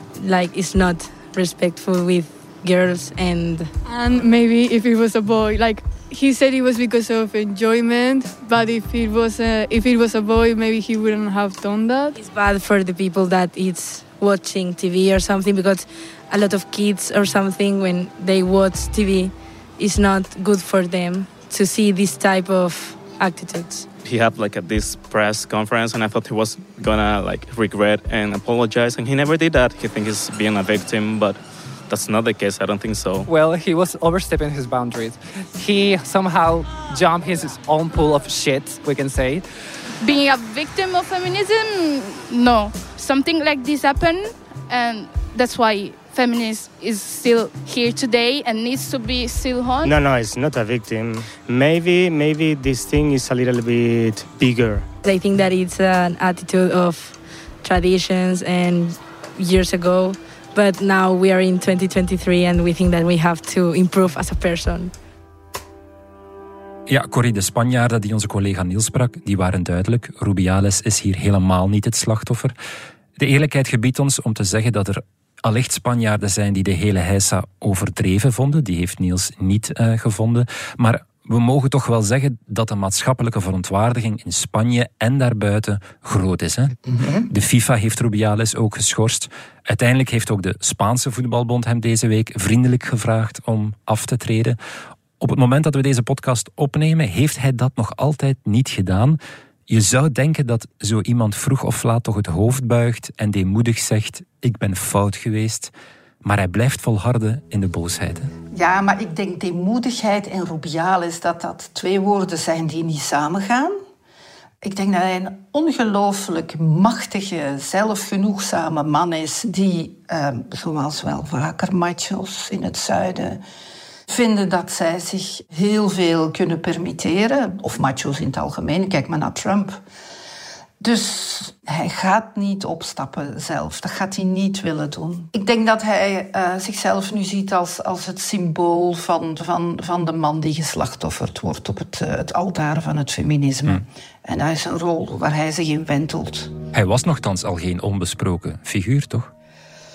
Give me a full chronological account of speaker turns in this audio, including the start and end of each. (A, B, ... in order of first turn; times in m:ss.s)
0:00.2-0:03.7 A
0:03.9-0:12.1 B
0:12.2-0:23.9 A
0:24.0-0:33.3 C
0:33.2-0:39.4 D
0:40.0-0:49.9 E
0:49.8-0:54.9 F
0:55.0-1:04.9 A
1:06.9-1:12.5 G
1:13.2-1:26.8 G
1:26.9-1:27.3 H
1:27.3-1:34.6 G
1:35.2-1:48.3 G
1:48.5-1:53.8 H
1:54.6-2:03.4 H
2:04.1-2:09.8 H
2:10.8-2:26.5 H
2:26.7-2:29.3 G